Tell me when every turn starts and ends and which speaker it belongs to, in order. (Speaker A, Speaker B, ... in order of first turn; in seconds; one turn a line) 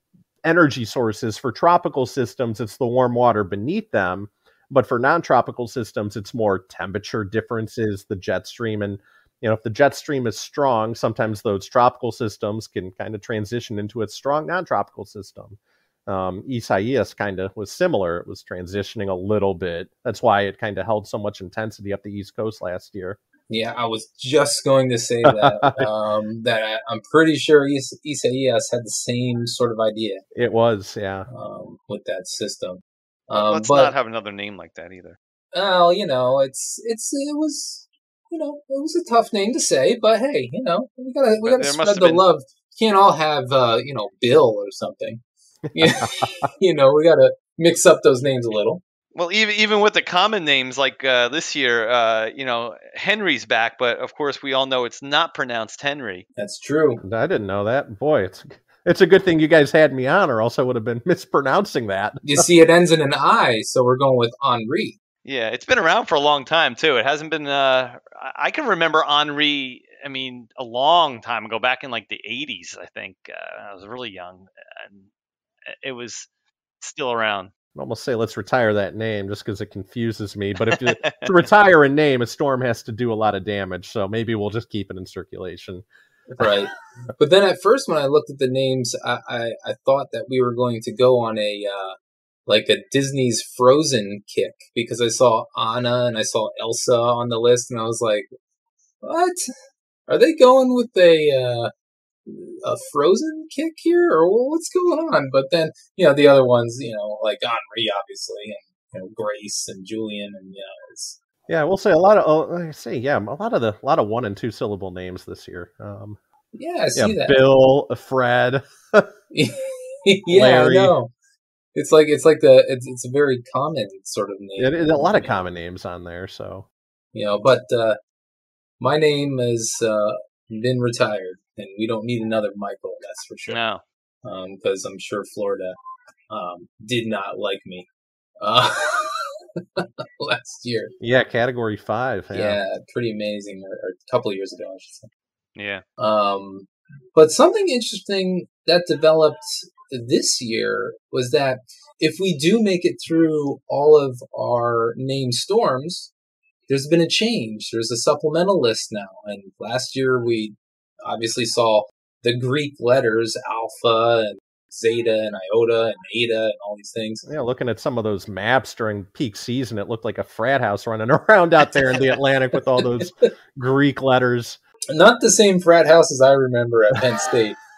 Speaker A: 0.4-23.2
Speaker B: 23.5-30.2
Speaker A: 25.2-25.9
Speaker A: 30.3-31.2
Speaker B: 31.3-33.9
Speaker C: 33.3-35.2
Speaker B: 35.5-48.8
Speaker C: 41.4-42.2
Speaker A: 45.8-46.1
Speaker C: 49.1-56.2
Speaker B: 56.4-57.0
Speaker A: 57.0-62.4
Speaker B: 62.2-65.0
Speaker C: 65.2-75.1
Speaker C: 75.7-76.3
Speaker C: 76.8-77.5
Speaker A: 77.7-85.8
Speaker C: 81.0-81.4
Speaker B: 86.3-98.3
Speaker B: 99.0-99.5
Speaker B: 100.1-101.7
Speaker B: 102.2-111.2
Speaker A: 111.5-116.2
Speaker B: 116.5-117.4
Speaker A: 117.0-119.1
Speaker B: 119.3-121.1
Speaker A: 120.3-121.0
Speaker B: 121.7-125.3
Speaker A: 124.6-126.7
Speaker B: 127.1-128.0
Speaker B: 128.8-133.6
Speaker C: 133.5-133.8
Speaker B: 134.2-135.8
Speaker B: 136.3-137.9
Speaker B: 138.4-140.9
Speaker A: 141.0-142.6
Speaker B: 142.3-145.1
Speaker C: 145.6-145.8
Speaker B: 146.0-156.1
Speaker B: 156.7-167.2
Speaker A: 167.2-174.6
Speaker B: 174.9-177.6